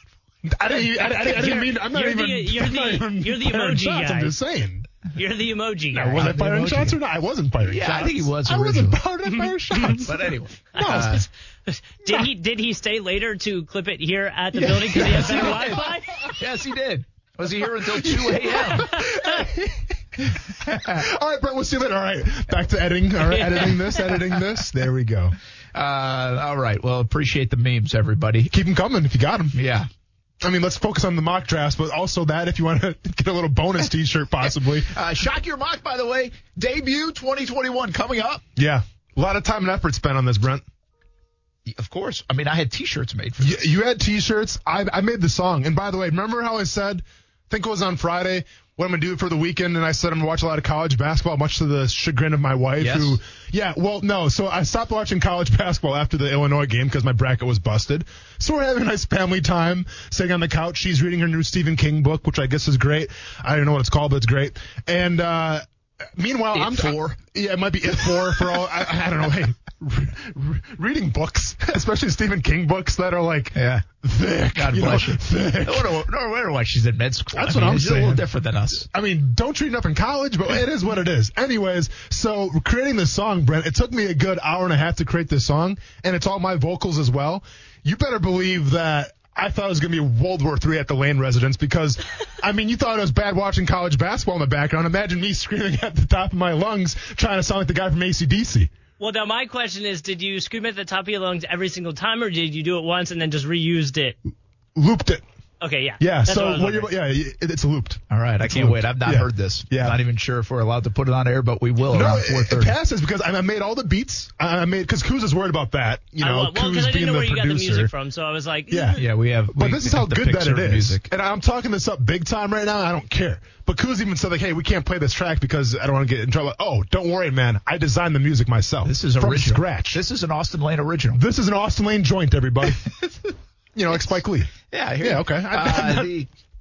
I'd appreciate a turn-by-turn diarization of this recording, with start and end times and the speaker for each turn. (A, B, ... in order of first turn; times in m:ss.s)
0:00.4-0:04.9 A
0:00.7-0:01.7 B
0:01.5-0:04.3 C
0:05.1-0:06.2 C
0:05.9-0:11.2 A
0:06.2-0:07.0 B
0:07.6-0:09.0 B
0:09.4-0:10.0 C
0:09.8-0:11.2 B
0:10.7-0:16.4 C
0:14.5-0:18.9 B
0:14.9-0:15.8 A
0:17.8-0:25.4 A
0:18.8-0:19.4 C
0:20.4-0:21.0 B
0:25.7-0:28.5 B
0:28.5-0:29.6 A
0:29.5-0:29.9 B
0:30.4-0:34.9 A
0:34.4-0:38.4 B
0:38.6-0:40.6 A
0:41.6-0:43.6 B
0:43.4-1:16.0 A
0:52.8-0:53.2 B
1:06.5-1:07.2 B
1:13.5-1:13.8 B
1:14.5-1:18.9 B
1:17.3-1:18.2 A
1:18.8-1:38.7 A
1:39.0-1:44.2 C
1:44.8-1:45.2 A
1:45.6-1:46.9 C
1:46.0-1:50.0 A
1:48.1-1:52.7 B
1:51.9-1:57.9 A
1:56.2-1:59.0 C
1:58.7-1:59.0 A
1:59.0-2:01.0 B
1:59.5-2:10.0 A
2:08.8-2:11.2 B
2:11.1-2:13.0 A
2:13.7-2:16.1 A
2:14.7-2:16.3 B